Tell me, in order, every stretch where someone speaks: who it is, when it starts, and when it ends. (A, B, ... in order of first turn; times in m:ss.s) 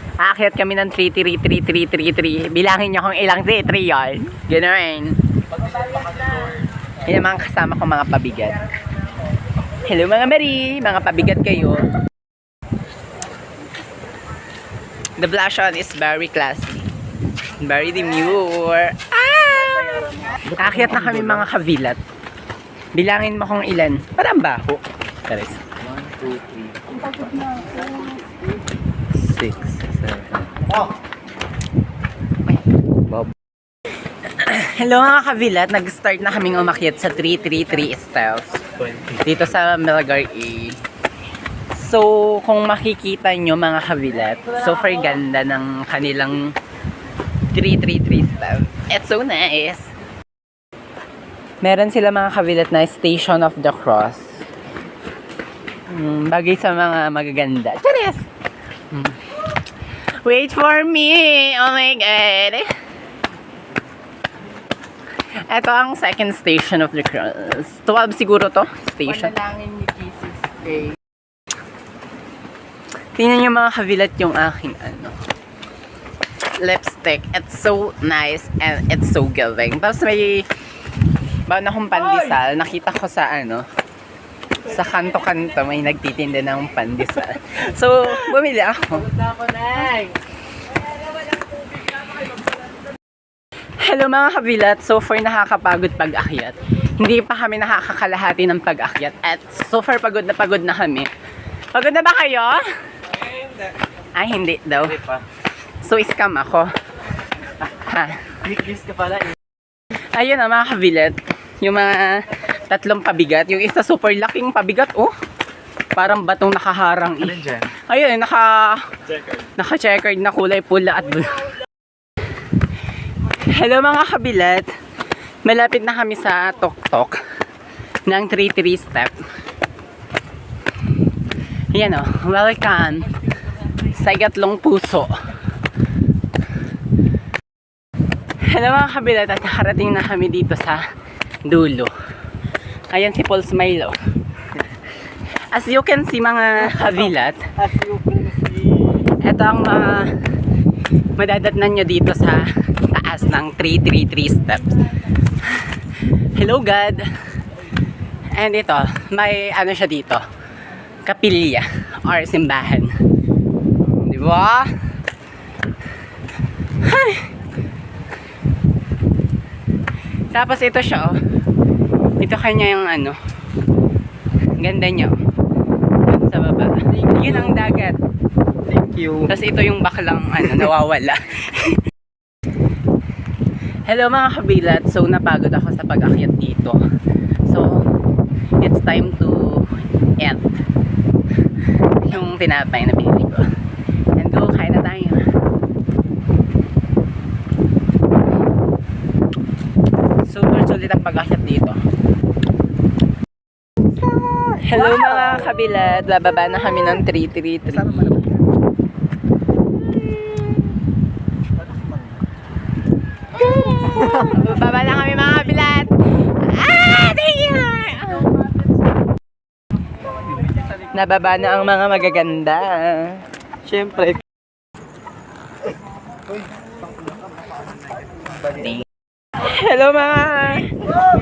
0:00.2-0:05.2 A
0:07.0-0:08.6 A
0:09.8-0:11.9 A
0:15.2-0:16.9 A
0:17.6-0:22.0 A
0:20.5-0:21.1 B
0:22.9-0:25.8 A
0:25.9-0:27.6 B
0:29.2-0:30.6 B
0:34.3-0:38.6 A
0:39.1-0:40.8 A
0:41.7-0:46.6 A
0:47.5-0:49.9 A
0:51.6-0:54.5 A
0:55.9-0:58.3 A
0:58.9-0:59.2 A
1:00.2-1:02.7 A
1:05.5-1:10.9 A
1:13.2-1:15.2 A
1:16.6-1:20.5 A
1:21.5-1:23.7 A
1:24.7-1:29.2 A
1:29.3-1:30.0 B
1:33.8-1:41.1 A
1:41.7-1:42.7 A
1:44.2-1:45.2 A
1:45.8-1:46.7 A
1:47.7-1:48.4 A
1:48.4-1:49.3 B
1:50.1-1:55.1 A
1:56.0-1:58.9 A
1:57.4-1:57.7 B
1:59.6-2:01.5 A
2:03.3-2:04.7 A
2:05.4-2:07.2 A
2:08.1-2:09.2 A
2:11.7-2:13.2 A
2:13.8-2:15.2 A
2:18.5-2:20.8 A
2:21.4-2:21.9 A
2:22.9-2:24.0 A
2:25.5-2:27.6 A
2:27.5-2:29.1 B
2:29.2-2:30.1 A
2:31.2-2:34.9 A
2:36.4-2:37.1 A
2:38.3-2:40.2 A
2:41.0-2:42.9 A
2:43.9-2:44.8 A
2:46.8-2:47.3 A
2:50.3-2:51.2 A
2:52.2-2:53.2 A
2:54.6-2:55.1 A
2:56.1-2:58.0 A
2:56.9-2:57.3 B
2:58.7-2:59.3 B
2:59.3-3:01.8 A
3:03.9-3:06.8 A
3:07.5-3:07.8 A
3:08.6-3:10.6 A
3:12.0-3:13.5 A
3:14.2-3:15.3 A
3:20.3-3:21.8 A
3:24.6-3:28.3 A
3:30.0-3:30.4 A
3:33.4-3:38.4 A
3:40.9-3:43.2 A
3:43.6-3:44.2 B
3:49.4-3:50.7 A